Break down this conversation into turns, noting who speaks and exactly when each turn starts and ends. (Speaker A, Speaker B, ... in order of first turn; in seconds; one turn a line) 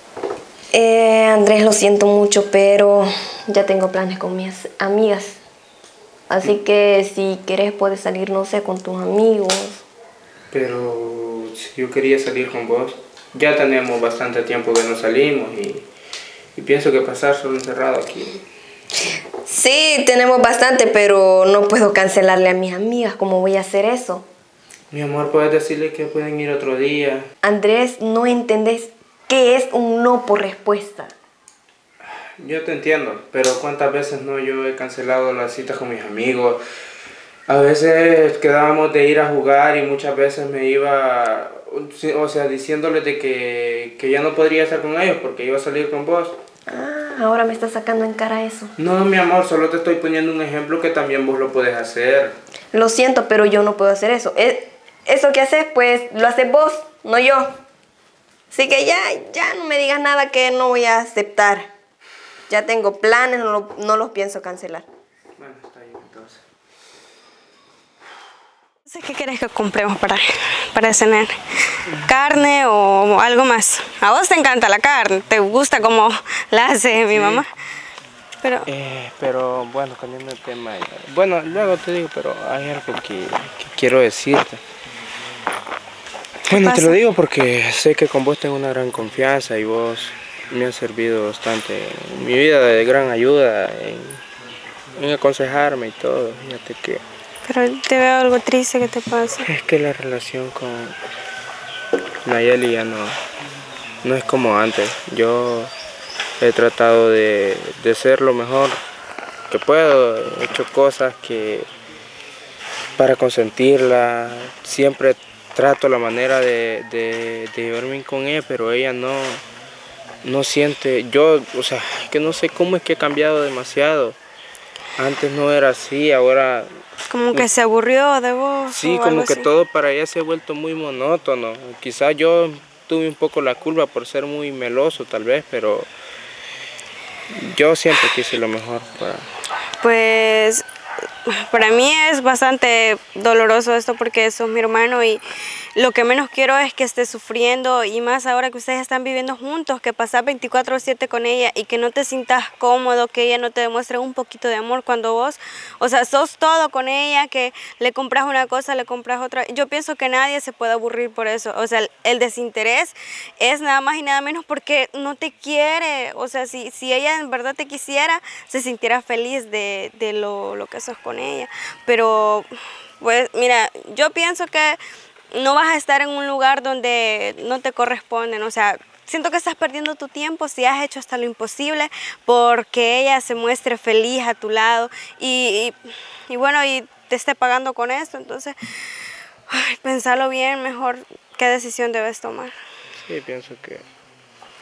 Speaker A: 0.7-5.4
Speaker A: 6.3-9.8
Speaker B: 10.5-15.9
Speaker B: 16.6-18.4
Speaker A: 19.4-24.3
Speaker B: 24.9-27.3
Speaker A: 27.4-31.1
Speaker B: 32.4-36.6
Speaker B: 37.5-46.4
Speaker A: 46.7-48.7
Speaker B: 48.8-52.3
Speaker A: 52.7-57.5
Speaker A: 58.5-61.7
Speaker A: 62.5-64.9
Speaker B: 65.4-66.4
Speaker C: 68.9-77.5
Speaker B: 77.1-77.4
Speaker C: 78.4-78.7
Speaker B: 78.7-84.6
Speaker B: 86.5-94.2
Speaker C: 86.5-87.0
Speaker B: 95.0-97.0
Speaker C: 97.5-99.5
Speaker B: 99.4-101.0
Speaker B: 102.2-103.2
Speaker B: 104.0-105.7
Speaker B: 106.4-108.8
Speaker B: 109.5-111.7
Speaker B: 113.0-119.4
Speaker B: 120.2-124.2
Speaker B: 125.0-126.7
Speaker C: 127.1-129.5
Speaker B: 128.7-135.9
Speaker B: 137.3-139.2
Speaker C: 139.8-140.6
Speaker C: 141.3-145.2
Speaker C: 145.8-172.5
Speaker C: 173.0-174.8
Speaker C: 175.3-185.8
Speaker C: 186.3-188.6
Speaker C: 189.5-192.5
Speaker B: 193.0-193.8